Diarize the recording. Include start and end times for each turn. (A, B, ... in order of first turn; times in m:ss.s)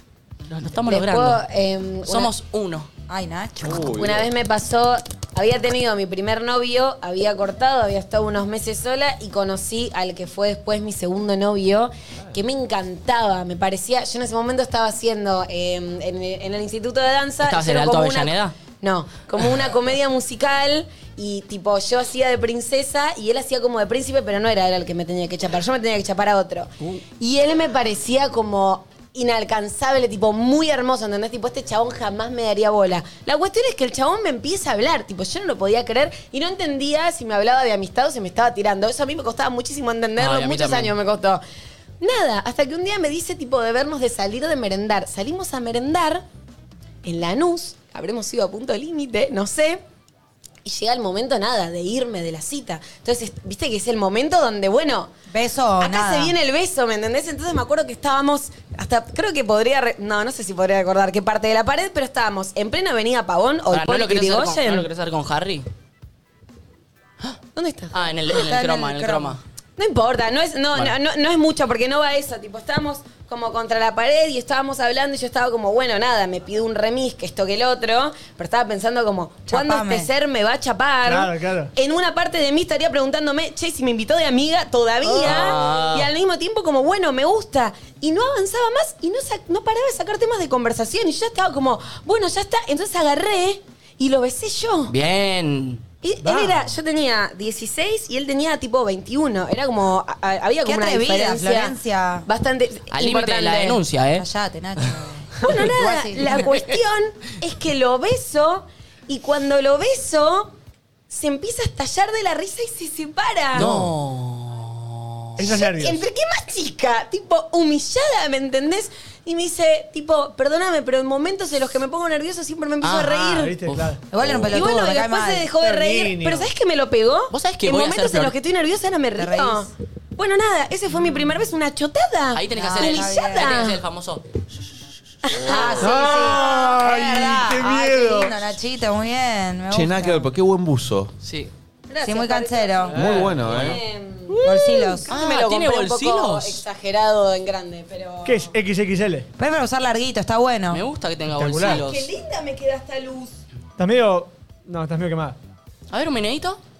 0:00.5-0:01.4 A
0:00.9-0:02.3 B
0:02.0-0:02.9 A
0:03.1-0:03.9 C
0:03.6-0:04.3 D
0:03.8-0:41.4 B
0:17.4-0:18.5 A
0:40.2-0:40.9 A
0:42.0-0:46.2 B
0:47.0-0:49.8 B
0:50.6-0:55.1 B
0:55.3-0:56.3 C
0:55.8-1:04.9 B
1:03.7-1:05.7 A
1:07.5-1:08.0 B
1:07.9-1:09.4 A
1:08.3-1:09.4 C
1:09.8-1:34.9 B
1:19.5-1:20.1 C
1:21.0-1:21.7 E
1:25.2-1:25.6 E
1:25.2-1:26.1 A
1:34.9-1:35.8 A
1:36.0-1:43.8 B
1:36.2-1:36.6 E
1:40.6-1:42.3 C
1:42.9-1:44.2 A
1:44.2-1:46.5 C
1:45.4-1:50.5 B
1:51.1-1:53.7 B
1:53.5-1:55.2 A
1:53.6-1:53.9 E
1:55.4-1:56.0 E
1:55.4-2:03.6 B
2:02.8-2:04.0 E
2:04.1-2:05.5 C
2:04.2-2:04.5 D
2:04.5-2:13.8 B
2:05.6-2:06.5 E
2:07.3-2:08.3 A
2:09.2-2:09.7 C
2:12.3-2:14.2 A
2:12.6-2:13.6 C
2:15.2-2:16.3 B
2:15.3-2:20.3 C
2:15.4-2:15.8 A
2:15.8-2:18.4 E
2:19.7-2:21.1 D
2:21.2-2:21.5 A
2:21.9-2:24.4 B
2:22.0-2:23.2 C
2:22.9-2:23.8 D
2:22.9-2:23.3 E
2:23.4-2:23.8 A
2:24.3-2:26.6 A
2:24.4-2:25.1 C
2:25.0-2:28.5 B
2:28.2-2:29.3 E
2:29.4-2:30.8 C
2:30.7-2:32.1 A
2:31.4-2:31.8 E
2:31.6-2:33.3 B
2:33.8-2:35.4 E
2:35.9-2:36.6 A